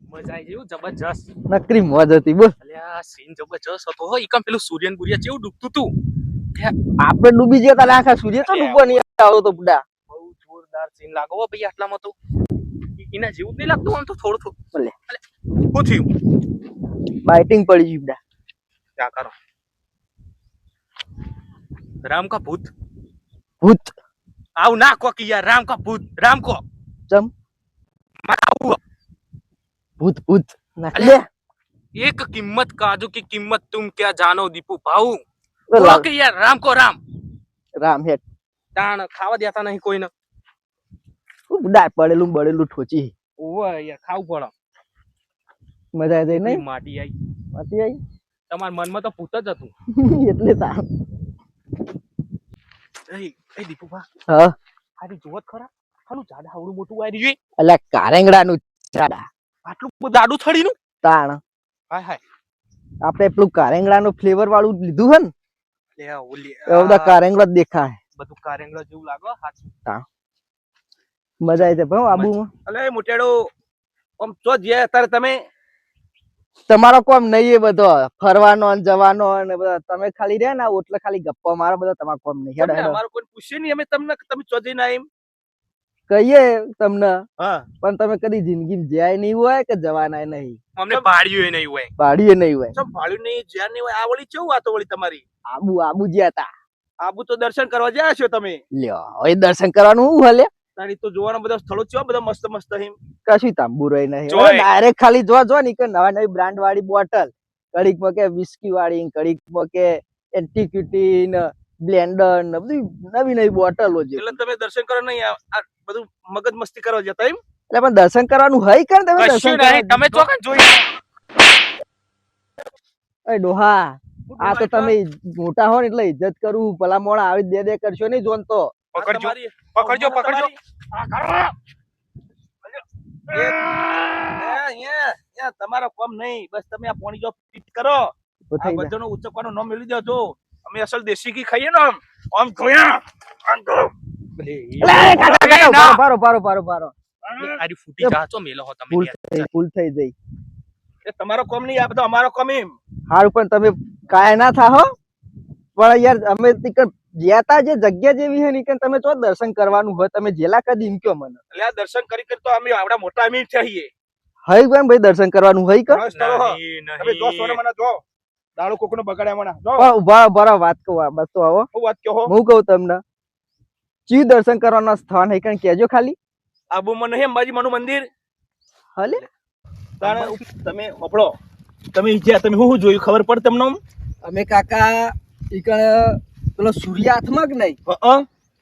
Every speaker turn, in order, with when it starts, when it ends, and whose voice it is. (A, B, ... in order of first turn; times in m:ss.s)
0:00.1-0:01.3 A
0:01.5-0:02.5 B
0:02.6-0:05.9 A
0:07.0-0:09.8 B
0:08.4-0:09.0 C
0:10.1-0:12.2 A
0:13.0-0:14.6 A
0:15.7-0:16.1 A
0:17.2-0:18.2 B
0:19.0-0:19.3 A
0:22.0-0:22.7 A
0:23.6-0:23.9 B
0:24.6-0:26.6 A
0:28.2-0:28.8 A
0:30.0-0:31.3 B
0:32.0-0:37.0 A
0:35.7-0:36.1 B
0:37.8-0:38.2 B
0:38.8-0:40.1 A
0:41.5-0:43.1 B
0:43.4-0:44.5 A
0:46.0-0:46.6 B
0:46.3-0:47.1 A
0:47.5-0:48.0 B
0:48.5-0:49.7 A
0:49.9-0:50.8 B
0:53.1-0:54.1 A
0:54.3-0:54.6 B
0:55.0-0:57.4 A
0:57.6-0:59.3 B
0:59.6-1:00.8 A
1:01.0-1:01.4 B
1:01.9-1:02.2 A
1:03.0-1:05.3 B
1:06.0-1:07.2 A
1:06.7-1:08.0 B
1:08.2-1:09.7 A
1:11.4-1:12.5 B
1:12.7-1:13.5 C
1:14.2-1:15.4 C
1:16.7-1:23.0 B
1:22.6-1:25.1 C
1:26.1-1:27.2 B
1:27.8-1:30.6 B
1:30.8-1:31.9 A
1:32.0-1:32.8 B
1:32.8-1:35.2 C
1:35.5-1:36.5 B
1:37.0-1:38.6 C
1:38.8-1:40.5 B
1:40.8-1:43.0 C
1:43.3-1:54.4 B
1:44.3-1:44.7 A
1:54.2-1:57.4 C
1:57.7-2:00.2 B
1:59.2-2:00.9 A
2:03.3-2:08.8 B
2:04.3-2:05.0 C
2:08.9-2:11.5 A
2:09.0-2:10.6 C
2:13.3-2:13.6 C
2:14.4-2:23.9 C
2:18.5-2:18.9 B
2:24.4-2:26.0 A
2:24.8-2:26.9 B
2:27.3-2:27.6 C
2:27.4-2:29.5 A
2:28.9-2:30.1 B
2:31.0-2:32.8 C
2:33.1-2:34.9 B
2:35.8-2:41.4 B
2:41.5-2:43.9 C
2:44.5-2:46.0 B
2:45.9-2:48.0 C
2:46.1-2:47.6 A
2:48.6-2:49.9 C
2:49.8-2:51.7 B
2:51.7-2:52.3 C
2:52.3-2:53.0 B
2:54.1-2:56.2 B
2:56.7-2:58.1 C
2:59.0-2:59.2 B
3:00.0-3:01.4 C
3:01.9-3:03.8 C
3:04.2-3:07.8 B
3:07.9-3:08.3 C